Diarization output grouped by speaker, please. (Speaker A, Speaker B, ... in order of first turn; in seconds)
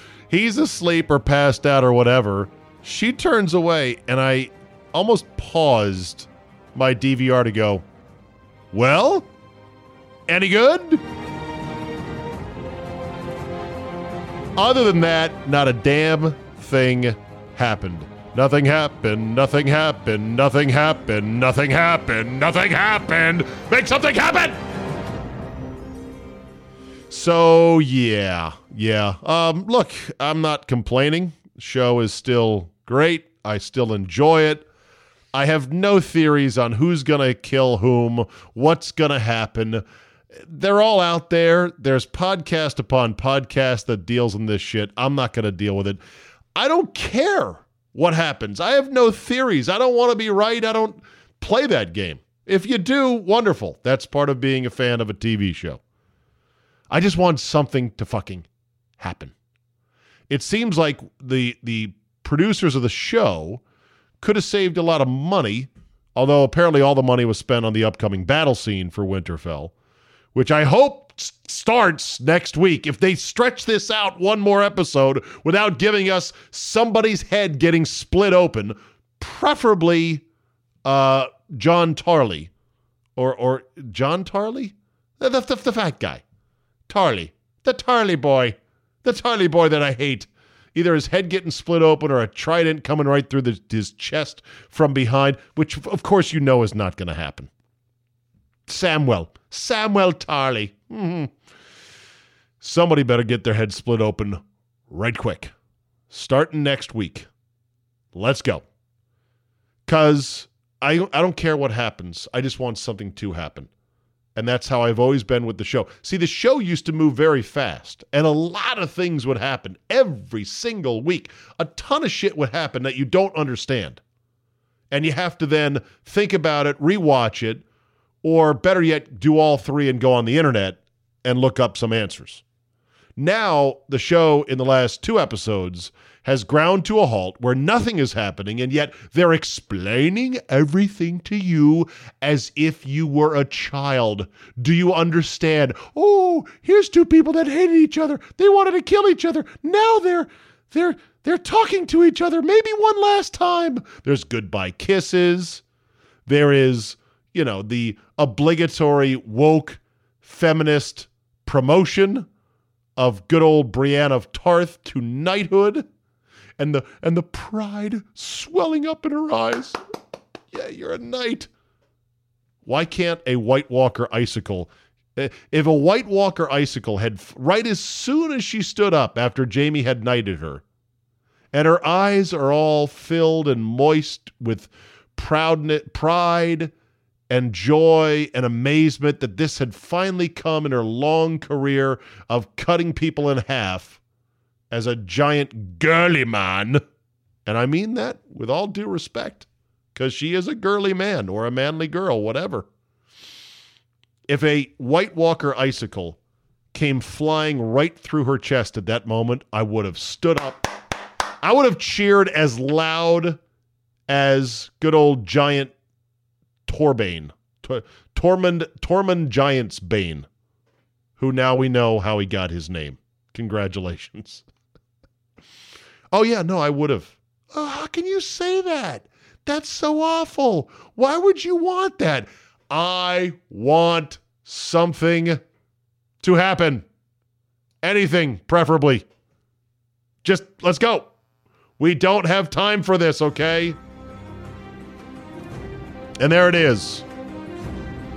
Speaker A: 0.3-7.8, 8.7-9.3, 10.3-11.0, 14.6-24.6, 27.1-34.7, 35.3-39.8, 40.4-46.0, 46.6-55.8, 56.9-58.5, 59.0-59.3, 60.3-63.6, 64.2-69.7, 70.3-80.2, 80.8-82.5, 83.2-86.2, 86.9-97.5, 98.7-101.3, 102.6-105.5, 106.1-107.3, 108.1-108.7, 109.9-113.7, 114.4-124.0, 124.9-127.6, 128.2-132.4, 133.2-155.6, 156.3-162.3, 163.0-165.8, 166.6-169.8, 170.5-171.5, 172.6-180.6, 181.5-186.7, 187.3-194.0, 194.7-196.8, 197.4-202.7, 204.3-206.2, 206.7-210.7, 211.4-213.4, 214.1-215.7, 216.7-220.3, 221.2-224.4, 226.1-235.4, 236.2-236.8, 237.8-239.1, 240.2-241.1, 241.8-243.8, 246.2-247.1